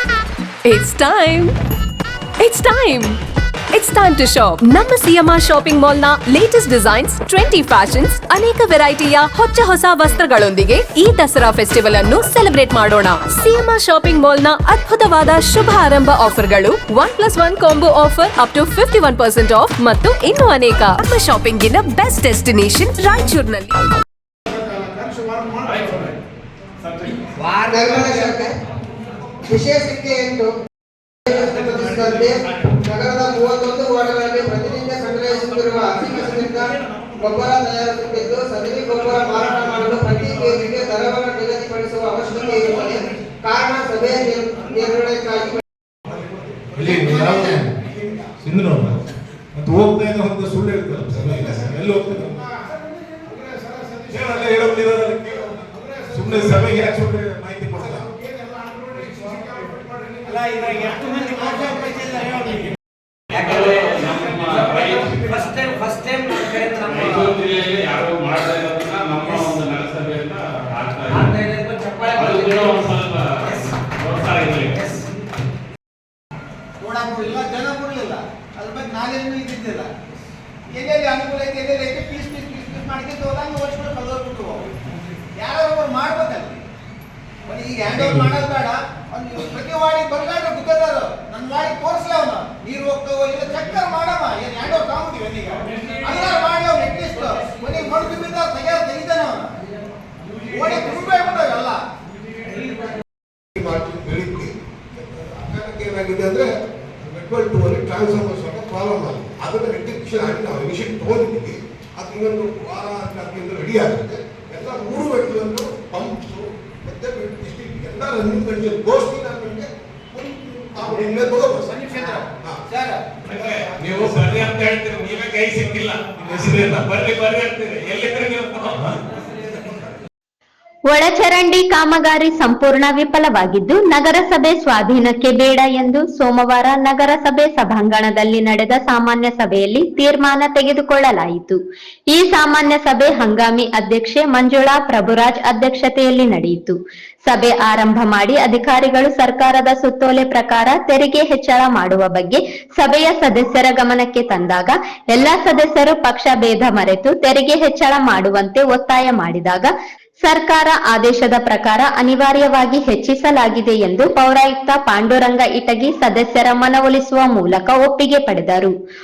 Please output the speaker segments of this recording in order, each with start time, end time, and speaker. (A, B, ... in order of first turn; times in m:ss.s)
0:00.6-0:01.6 A
0:02.4-0:03.2 A
0:03.7-0:23.8 A
0:25.5-0:26.1 B
0:27.4-0:28.5 C
0:29.4-0:30.5 C
0:31.2-0:45.6 C
0:46.6-0:47.8 D
0:48.4-0:49.0 D
0:49.5-0:52.5 D
0:54.0-0:58.1 D
1:01.1-1:01.5 E
1:03.3-1:05.8 B
1:06.6-1:14.9 B
1:16.8-1:20.2 E
1:20.7-1:24.7 E
1:25.4-1:26.6 E
1:27.4-1:39.5 E
1:27.9-1:28.2 D
1:40.5-1:41.8 E
1:43.6-1:46.5 F
1:47.0-2:01.8 F
2:01.8-2:03.0 E
2:03.2-2:08.9 B
2:10.9-2:21.6 G
2:22.1-2:39.7 G
2:40.2-2:48.7 G